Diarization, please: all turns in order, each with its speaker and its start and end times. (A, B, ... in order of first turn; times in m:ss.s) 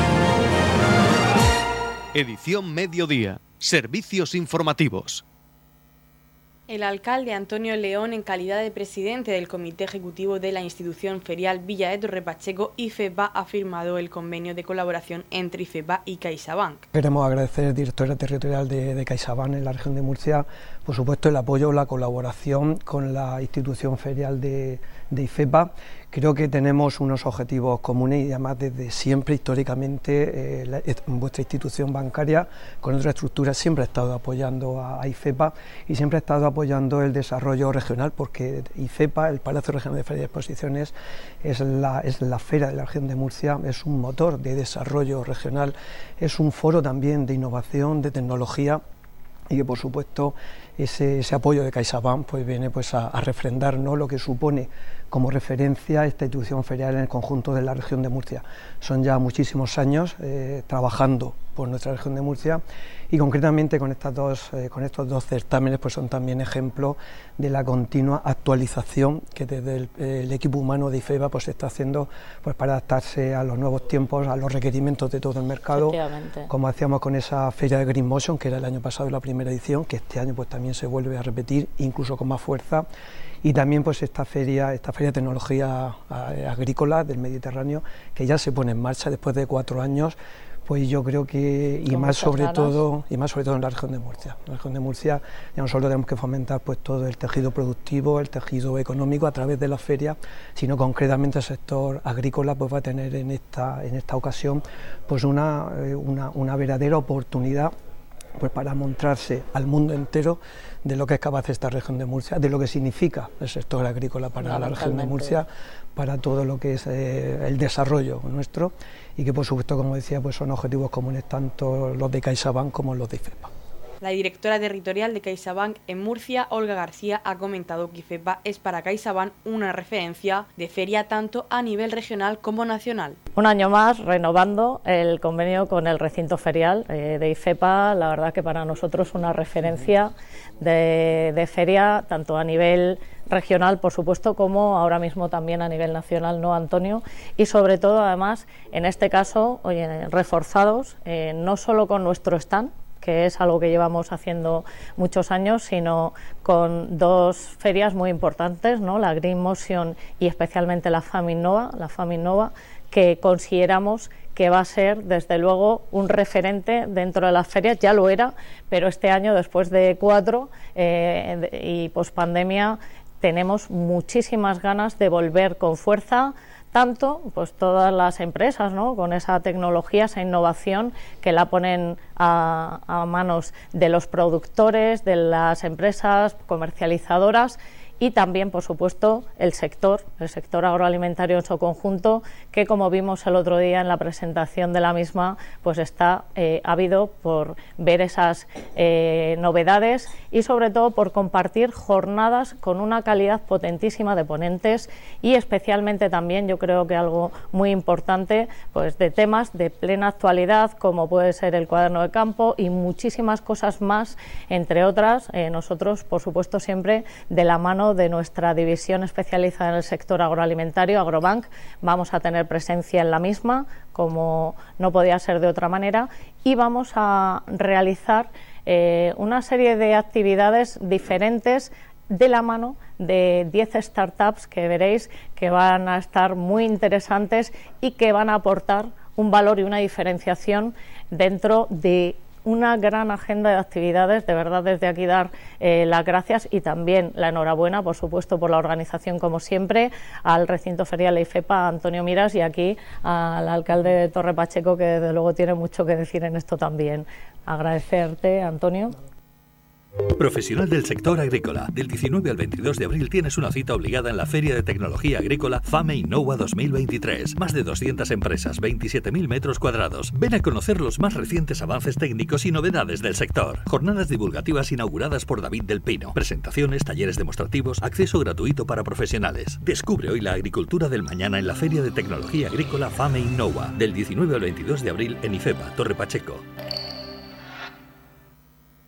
0:02.1-0:05.2 A
0:06.7-0:16.9 B
0:16.9-0:48.8 C
0:49.5-1:22.8 C
1:15.7-1:16.5 D
1:23.4-1:47.7 C
1:31.9-1:32.8 D
1:48.4-2:03.5 C
1:54.4-1:55.4 D
2:04.0-2:13.2 B
2:13.4-4:19.0 D
4:20.2-4:46.4 E